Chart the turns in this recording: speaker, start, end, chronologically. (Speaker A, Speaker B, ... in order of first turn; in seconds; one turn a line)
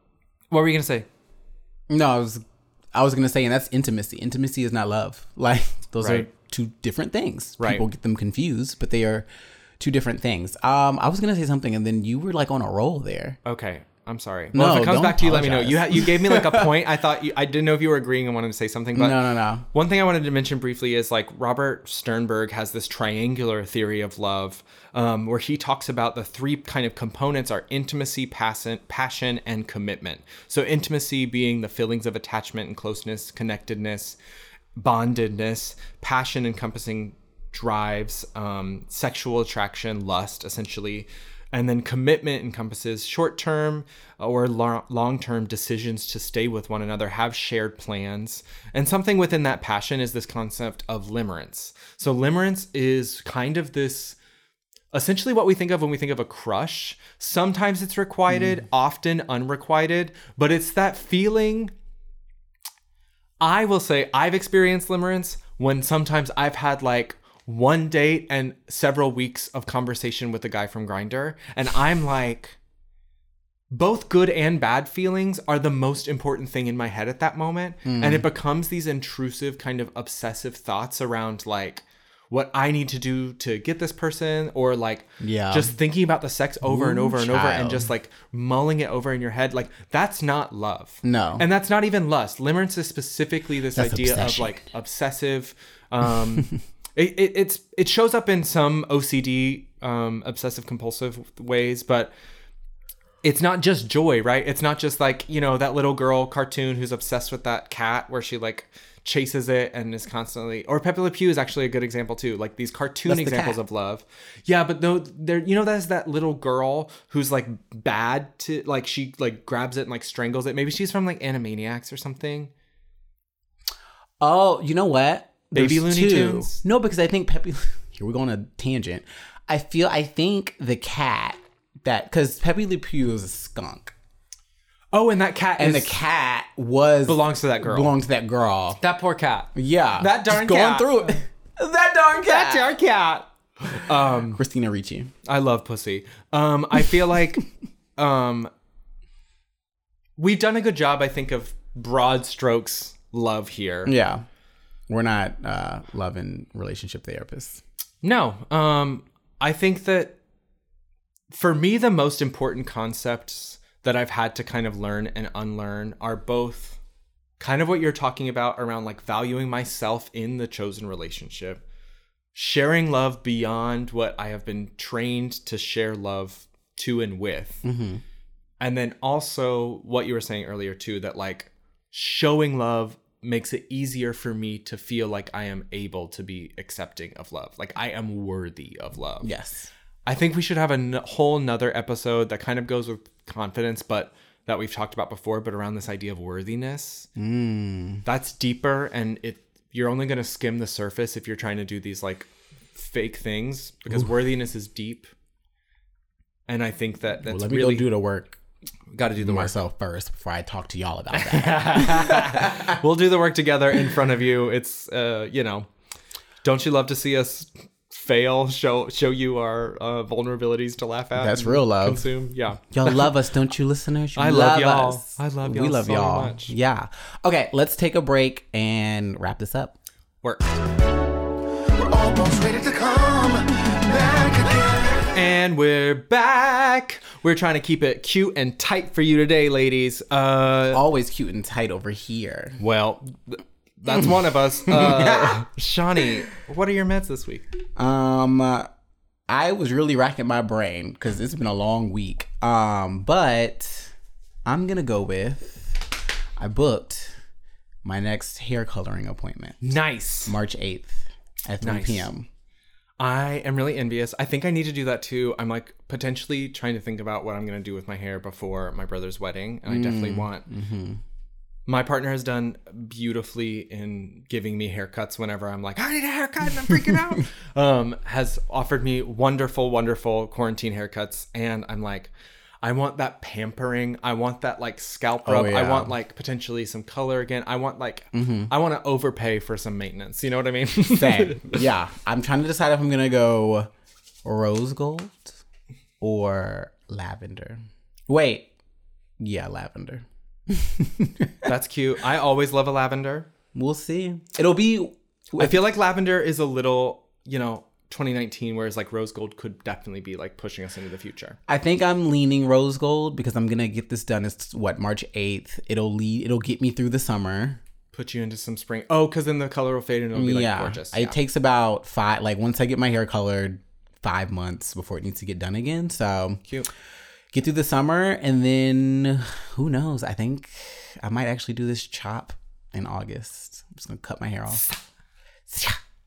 Speaker A: 0.5-1.1
Speaker B: 1.9-9.3
Speaker A: 6.0-6.3
Speaker A: 7.6-7.8
Speaker B: 9.8-13.4
Speaker A: 13.4-19.2
Speaker B: 14.5-16.7
Speaker B: 18.9-19.7
Speaker A: 19.7-34.2
Speaker A: 34.8-54.2
Speaker A: 54.9-61.7
Speaker B: 58.3-58.6
Speaker A: 63.4-72.6
Speaker A: 73.7-102.1
Speaker B: 77.8-78.3
Speaker B: 85.2-85.8
Speaker B: 86.6-87.9
Speaker B: 91.0-91.5
Speaker B: 93.7-94.7
Speaker A: 103.2-122.5
Speaker B: 113.1-113.6
Speaker B: 124.2-133.9
Speaker A: 125.5-126.6
Speaker A: 134.9-136.0
Speaker B: 135.6-138.8
Speaker A: 137.1-137.9
Speaker A: 138.8-141.2
Speaker B: 139.6-142.8
Speaker A: 142.2-144.4
Speaker B: 144.2-145.1
Speaker A: 145.2-147.4
Speaker A: 148.0-148.5
Speaker A: 150.2-153.9
Speaker B: 153.8-154.3
Speaker B: 154.9-157.6
Speaker A: 158.0-160.2
Speaker A: 161.3-166.8
Speaker A: 167.4-171.6
Speaker A: 172.3-177.6
Speaker B: 177.6-178.0
Speaker A: 178.6-189.3
Speaker B: 189.2-189.7
Speaker A: 190.1-197.1
Speaker B: 197.2-198.0
Speaker A: 198.1-205.1
Speaker A: 206.5-207.9
Speaker B: 207.2-208.4
Speaker A: 208.9-209.6
Speaker B: 209.2-212.8
Speaker A: 211.1-215.7
Speaker A: 216.4-223.2
Speaker B: 221.2-229.8
Speaker A: 224.2-226.6
Speaker A: 230.2-230.6
Speaker C: 231.9-234.6
Speaker A: 235.1-240.8
Speaker B: 240.7-242.6
Speaker A: 242.6-247.4
Speaker B: 244.7-245.4
Speaker B: 247.8-248.7
Speaker B: 249.3-253.9
Speaker B: 254.4-257.2
Speaker B: 257.8-259.6
Speaker A: 259.6-260.4
Speaker B: 260.2-262.3
Speaker A: 261.6-262.1
Speaker A: 263.0-270.4
Speaker B: 269.7-271.0
Speaker A: 271.7-291.6
Speaker B: 285.2-285.9
Speaker B: 288.1-288.5
Speaker B: 290.9-293.7
Speaker B: 294.2-295.4
Speaker B: 296.0-298.5
Speaker B: 299.2-301.4
Speaker A: 301.4-303.3
Speaker B: 303.5-305.6
Speaker A: 305.4-311.4
Speaker B: 311.5-317.6
Speaker A: 317.9-321.2
Speaker B: 320.1-326.4
Speaker B: 327.3-334.7
Speaker B: 335.5-335.8